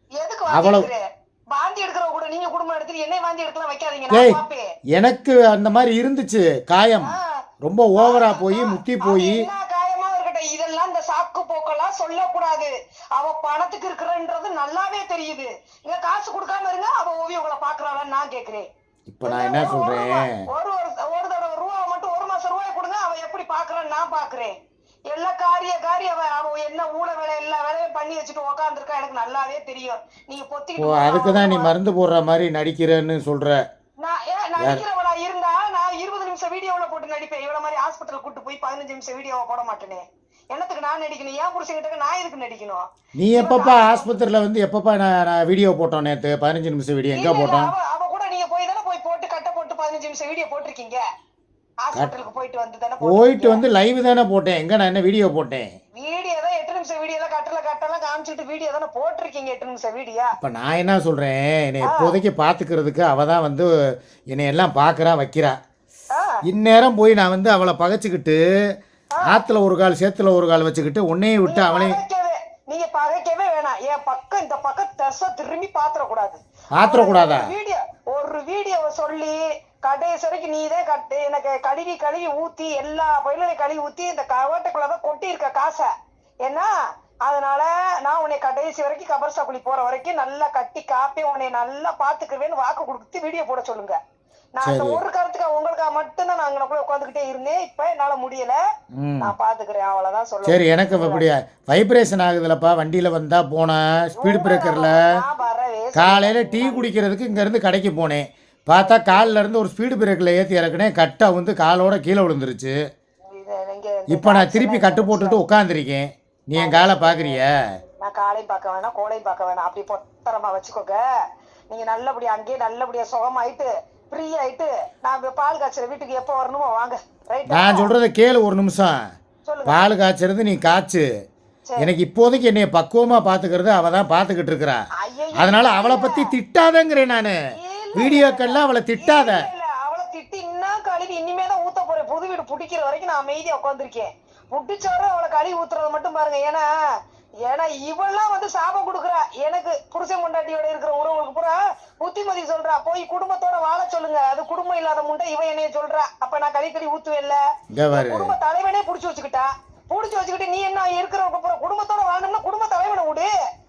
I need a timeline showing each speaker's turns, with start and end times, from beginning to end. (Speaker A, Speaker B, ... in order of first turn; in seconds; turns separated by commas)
Speaker A: 0.2-4.7, Speaker B: 0.5-0.9, Speaker B: 4.1-4.4, Speaker B: 5.0-7.1, Speaker A: 7.0-7.4, Speaker B: 7.6-9.5, Speaker A: 8.0-18.7, Speaker B: 19.1-20.4, Speaker A: 19.2-24.5, Speaker A: 25.1-31.7, Speaker B: 30.8-33.6, Speaker A: 34.0-44.1, Speaker B: 43.2-47.7, Speaker A: 47.1-51.0, Speaker A: 51.8-53.6, Speaker B: 53.0-55.7, Speaker A: 56.0-60.3, Speaker B: 60.4-63.7, Speaker A: 61.8-62.2, Speaker B: 64.3-65.6, Speaker B: 66.5-68.4, Speaker B: 69.2-72.0, Speaker A: 71.5-85.9, Speaker B: 76.8-77.5, Speaker A: 86.4-86.7, Speaker A: 87.2-94.0, Speaker A: 94.6-98.6, Speaker B: 94.6-95.0, Speaker B: 99.0-99.3, Speaker A: 99.2-101.3, Speaker B: 100.4-105.0, Speaker A: 104.2-106.9, Speaker B: 105.9-112.8, Speaker A: 108.8-109.2, Speaker A: 113.3-115.4, Speaker B: 114.1-117.5, Speaker A: 116.5-117.4, Speaker A: 118.0-121.0, Speaker A: 121.7-127.9, Speaker B: 127.5-129.0, Speaker A: 129.4-129.8, Speaker B: 129.7-131.1, Speaker A: 131.7-131.9, Speaker B: 131.8-134.8, Speaker A: 135.0-136.3, Speaker B: 135.3-137.3, Speaker A: 137.6-146.6, Speaker B: 137.9-139.4, Speaker A: 147.5-157.4, Speaker B: 157.7-158.3, Speaker A: 157.9-163.3